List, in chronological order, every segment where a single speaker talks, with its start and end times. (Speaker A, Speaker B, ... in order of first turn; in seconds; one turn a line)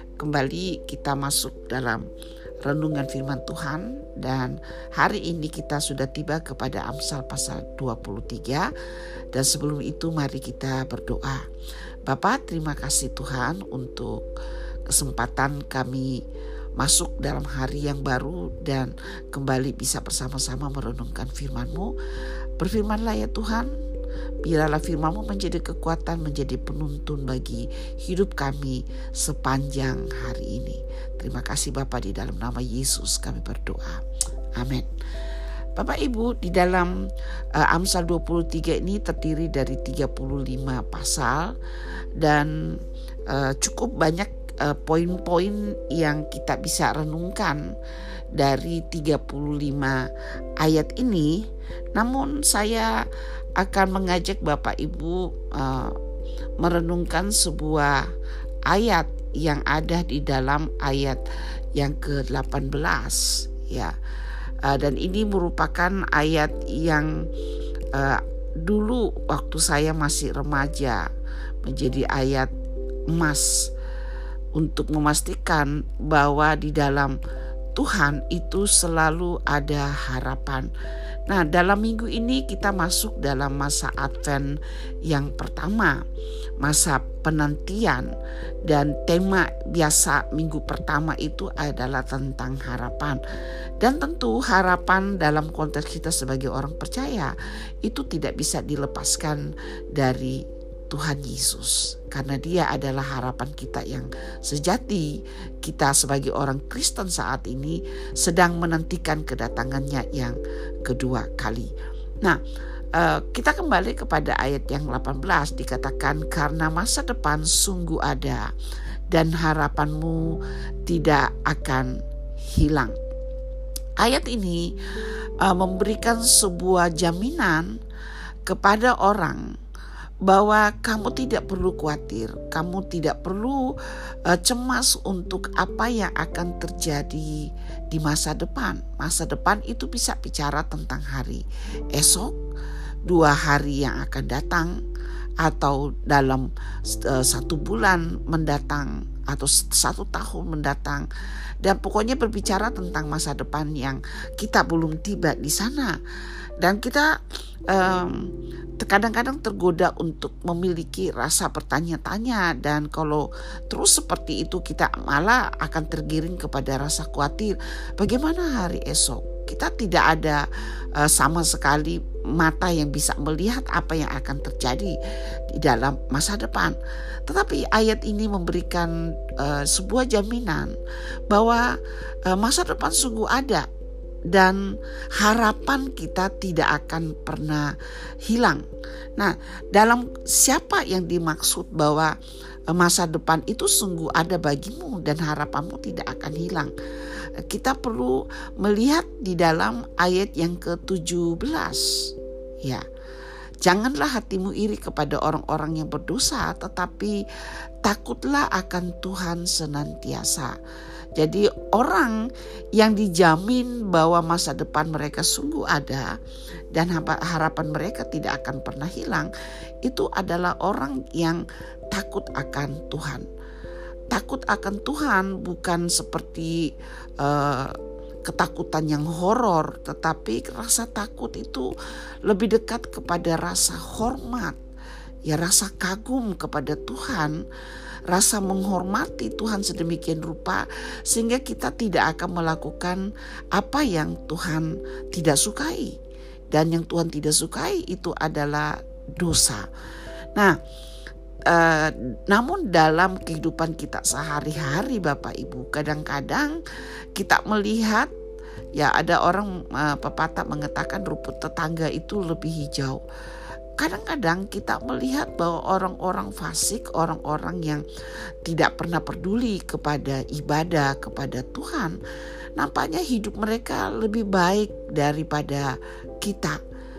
Speaker A: 0.2-2.0
Speaker A: 2.6-8.7
Speaker A: 9.3-11.4
Speaker A: 12.1-14.2
Speaker A: 14.9-16.2
Speaker A: 16.8-21.9
Speaker A: 22.6-23.7
Speaker A: 24.4-34.0
Speaker A: 34.6-34.9
Speaker A: 35.8-36.9
Speaker A: 37.5-41.5
Speaker A: 42.2-42.5
Speaker A: 43.3-47.6
Speaker A: 48.4-50.0
Speaker A: 50.6-51.3
Speaker A: 52.0-53.0
Speaker A: 53.6-56.0
Speaker A: 56.6-58.1
Speaker A: 58.7-61.2
Speaker A: 61.8-63.9
Speaker A: 64.6-67.1
Speaker A: 67.9-71.0
Speaker A: 71.6-72.5
Speaker A: 73.1-73.7
Speaker A: 74.5-77.2
Speaker A: 77.7-80.7
Speaker A: 81.3-84.5
Speaker A: 85.1-86.0
Speaker A: 86.6-88.1
Speaker A: 88.7-93.2
Speaker A: 93.8-100.4
Speaker A: 100.9-105.1
Speaker A: 105.6-111.7
Speaker A: 112.9-118.4
Speaker A: 119.1-121.9
Speaker A: 122.5-123.0
Speaker A: 124.0-127.7
Speaker A: 128.5-129.4
Speaker A: 130.3-133.7
Speaker A: 134.2-142.4
Speaker A: 143.1-144.8
Speaker A: 145.4-151.1
Speaker A: 151.6-156.0
Speaker A: 156.6-157.1
Speaker A: 157.7-158.3
Speaker A: 158.8-170.4
Speaker A: 171.0-175.0
Speaker A: 175.5-180.8
Speaker A: 181.3-183.7
Speaker A: 184.3-188.6
Speaker A: 189.2-192.2
Speaker A: 192.7-196.7
Speaker A: 197.5-202.1
Speaker A: 203.6-207.2
Speaker A: 207.8-210.5
Speaker A: 211.2-212.2
Speaker A: 212.8-216.1
Speaker A: 216.7-219.3
Speaker A: 219.8-223.3
Speaker A: 224.1-226.7
Speaker A: 227.2-231.7
Speaker A: 232.2-234.6
Speaker A: 235.3-237.4
Speaker A: 238.1-243.0
Speaker A: 243.6-246.0
Speaker A: 246.5-249.7
Speaker A: 251.5-256.6
Speaker A: 257.1-258.1
Speaker A: 258.8-263.0
Speaker A: 263.8-267.8
Speaker A: 268.4-272.0
Speaker A: 272.6-276.6